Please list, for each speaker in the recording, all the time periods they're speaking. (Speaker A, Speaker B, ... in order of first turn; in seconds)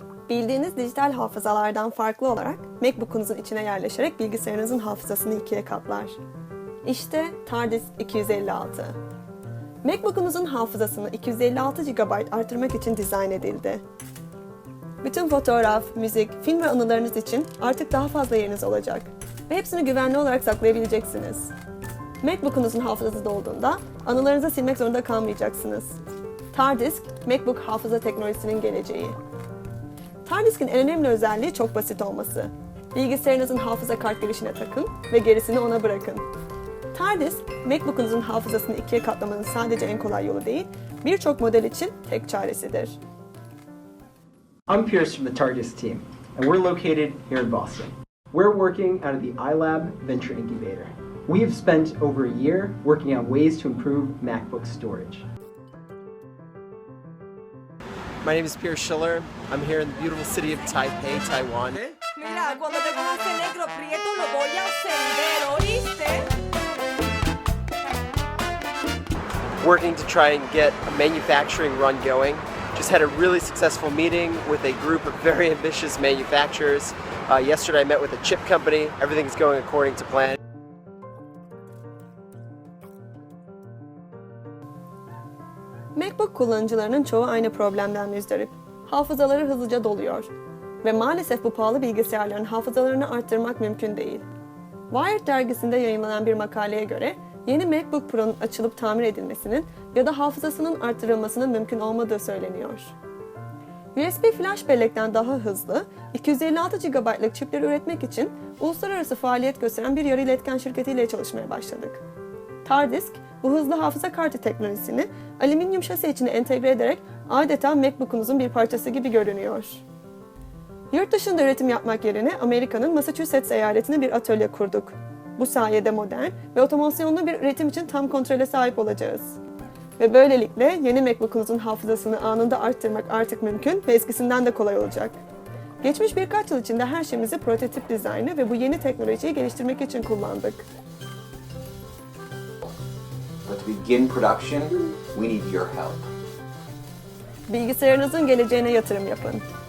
Speaker A: 0.3-6.2, 6.8-9.0, 9.8-13.8, 15.0-21.5, 22.2-26.0, 26.5-29.2, 30.2-36.3, 36.9-43.0, 86.0-90.3, 90.8-94.2, 94.9-102.9, 104.0-112.0, 112.7-119.8, 120.9-129.4, 130.0-135.2, 135.8-140.7, 147.5-149.4
Speaker B: 44.7-55.3
Speaker C: 58.2-62.0, 69.6-80.4
Speaker D: 62.1-66.3
Speaker E: 143.4-146.1